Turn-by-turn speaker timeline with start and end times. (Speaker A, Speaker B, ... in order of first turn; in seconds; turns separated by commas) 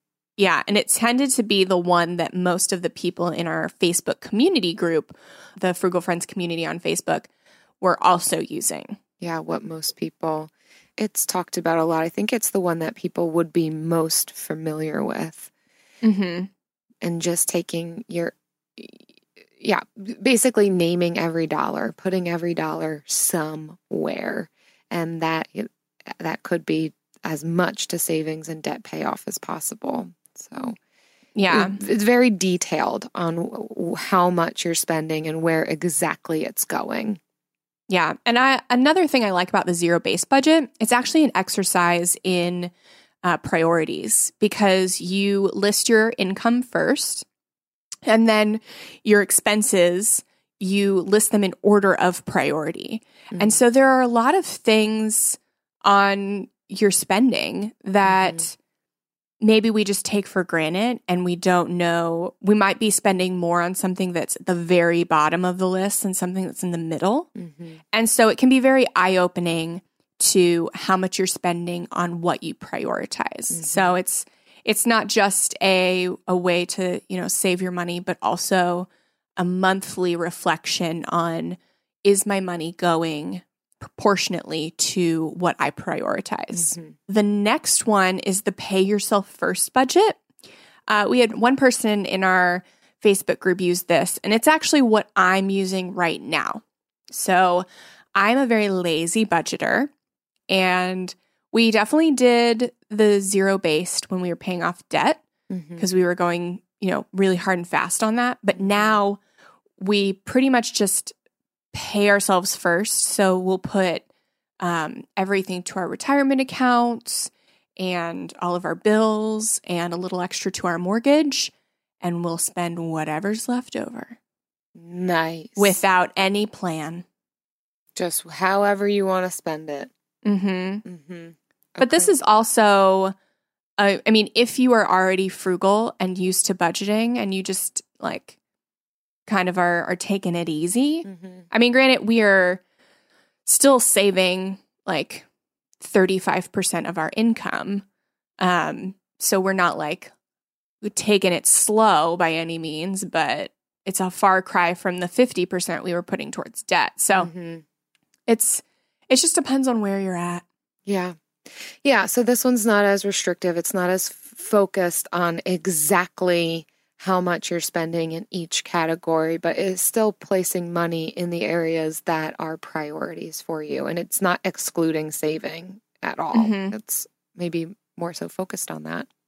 Speaker A: 0.4-7.3, Speaker A: 7.8-9.0, Speaker B: 9.2-15.5, Speaker A: 16.0-16.5, Speaker B: 17.0-30.8, Speaker A: 31.4-31.8, Speaker B: 31.5-37.2, Speaker A: 37.9-42.7, Speaker A: 43.2-47.2, Speaker A: 48.0-58.5, Speaker B: 53.3-53.6, Speaker B: 58.0-58.4, Speaker A: 59.4-67.3, Speaker B: 67.3-67.8, Speaker A: 67.9-90.2, Speaker B: 73.5-73.9, Speaker B: 86.5-86.9, Speaker A: 90.9-99.9, Speaker A: 100.5-105.2, Speaker B: 105.5-105.8, Speaker A: 105.8-109.2, Speaker B: 108.5-109.0, Speaker A: 109.8-111.1, Speaker A: 111.7-114.0, Speaker A: 114.6-124.2, Speaker B: 124.8-125.8, Speaker A: 125.6-127.0, Speaker B: 127.9-129.9, Speaker A: 130.2-130.8, Speaker B: 130.8-132.1, Speaker A: 131.8-133.1, Speaker A: 133.8-138.3, Speaker A: 139.3-142.6, Speaker B: 141.0-141.4, Speaker A: 143.4-145.2, Speaker A: 145.8-147.8, Speaker A: 148.4-150.1, Speaker A: 150.8-157.3, Speaker B: 157.1-157.6, Speaker A: 158.3-160.4, Speaker B: 160.8-179.1, Speaker A: 176.3-176.7